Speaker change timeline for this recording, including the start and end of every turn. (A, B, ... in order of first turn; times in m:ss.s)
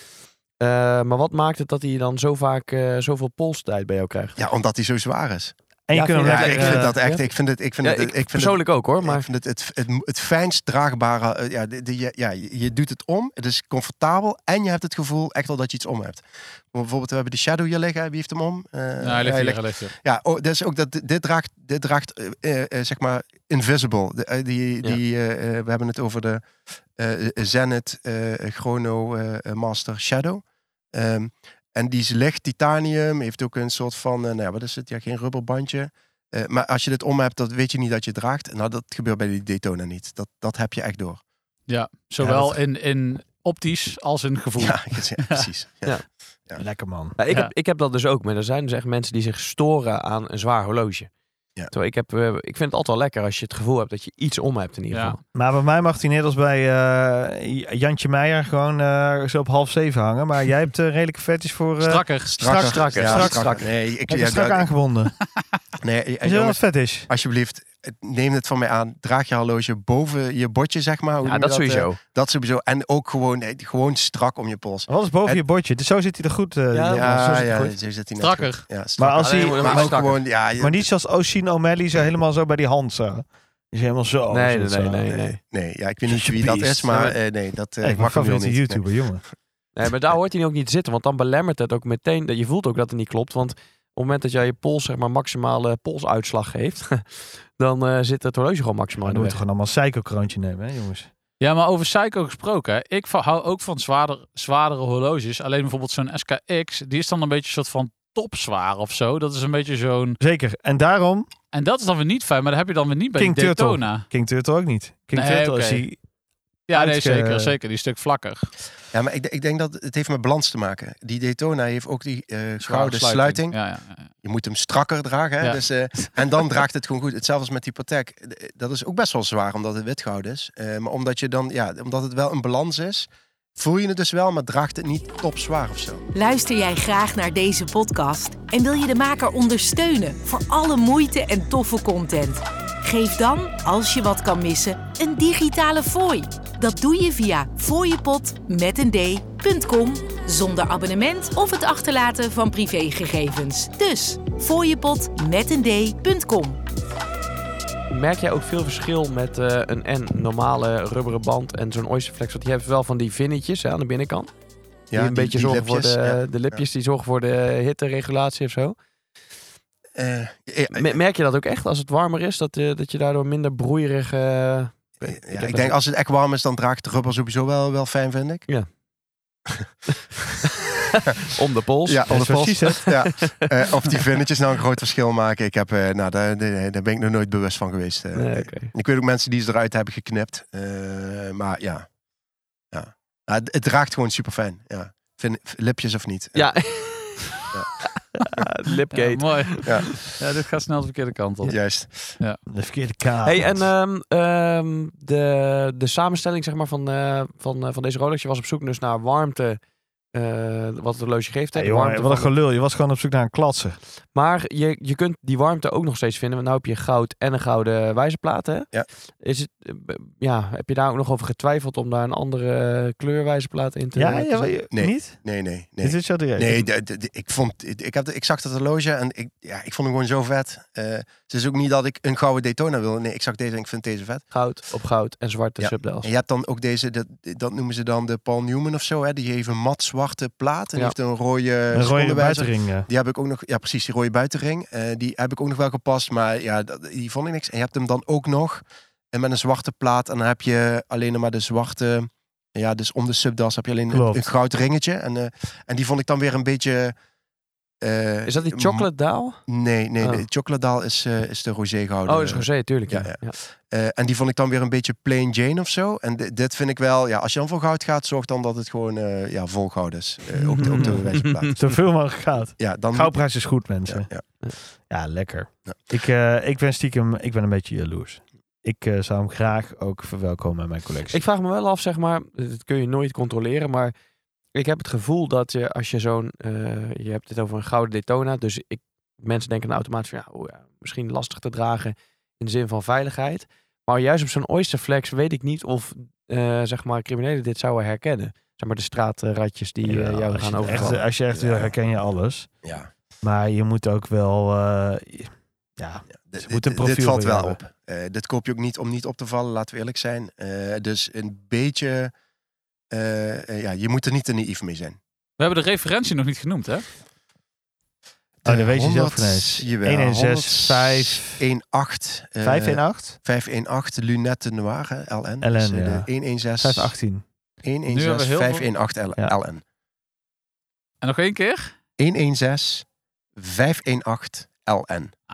0:00.6-0:04.4 A
0:04.4-0:05.5 B
0:05.9-0:07.0 C
0:05.9-0:07.3 A
0:06.2-0:26.4 B
0:07.8-0:09.3 A
0:19.0-0:20.0 D
0:27.0-0:41.2 B
0:41.7-0:45.5 D
0:44.6-0:46.6 B
0:46.6-0:47.2 C
0:47.2-0:51.1 A
0:51.7-0:55.2 A
0:54.9-0:55.2 D
0:55.3-1:05.1 C
1:01.8-1:02.4 D
1:02.3-1:04.7 B
1:02.5-1:03.7 A
1:05.8-1:15.4 B
1:06.2-1:07.1 C
1:11.2-1:12.0 A
1:14.9-1:17.6 C
1:16.7-1:17.8 A
1:17.0-1:20.8 B
1:18.2-1:18.6 D
1:19.0-1:25.2 C
1:19.2-1:20.2 A
1:24.3-1:25.4 A
1:25.1-1:28.8 B
1:26.1-1:27.2 C
1:27.8-1:29.2 C
1:29.8-1:39.4 A
1:39.0-1:41.1 C
1:41.4-1:50.2 D
1:50.2-1:51.3 C
1:51.5-1:54.1 D
1:53.2-1:56.0 C
1:55.1-1:55.9 D
1:56.7-1:58.5 D
1:56.7-1:57.6 C
1:58.9-2:03.6 B
2:02.6-2:04.1 D
2:04.2-2:16.0 B
2:05.4-2:06.1 D
2:16.1-2:36.6 E
2:37.9-2:44.3 A
2:44.9-2:46.6 B
2:44.9-2:48.8 A
2:50.0-2:51.0 B
2:50.7-2:55.8 A
2:55.0-2:58.5 B
3:00.9-3:03.5 A
3:01.9-3:11.9 B
3:02.1-3:02.9 C
3:08.2-3:08.7 A
3:12.7-3:16.5 B
3:16.4-3:20.0 A
3:18.9-3:21.6 D
3:21.5-3:22.2 B
3:22.5-3:23.7 C
3:23.2-3:29.6 A
3:30.1-3:32.3 A
3:31.5-3:33.8 C
3:34.1-3:44.5 A
3:44.0-3:45.2 C
3:44.7-3:54.2 B
3:45.8-3:46.7 C
3:54.3-3:56.1 A
3:55.6-4:17.0 B
4:01.7-4:02.9 C
4:13.9-4:14.3 C
4:17.8-4:18.9 B
4:18.3-4:19.4 A
4:19.5-4:31.6 B
4:20.0-4:20.2 A
4:22.1-4:23.4 A
4:30.4-4:31.6 A
4:31.6-4:34.1 C
4:32.6-4:33.3 B
4:33.9-4:34.2 B
4:34.9-4:41.2 C
4:41.1-4:43.9 A
4:44.5-5:01.0 A
4:59.8-5:02.5 C
5:00.7-5:01.7 B
5:02.6-5:02.9 B
5:03.2-5:07.6 C
5:06.1-5:12.1 B
5:12.9-5:15.0 B
5:15.4-5:16.9 D
5:18.4-5:26.9 B
5:18.4-5:21.4 C
5:22.4-5:23.2 C
5:25.4-5:27.2 C
5:27.6-5:29.6 B
5:27.9-5:28.7 D
5:31.0-5:31.7 D
5:32.0-5:35.1 B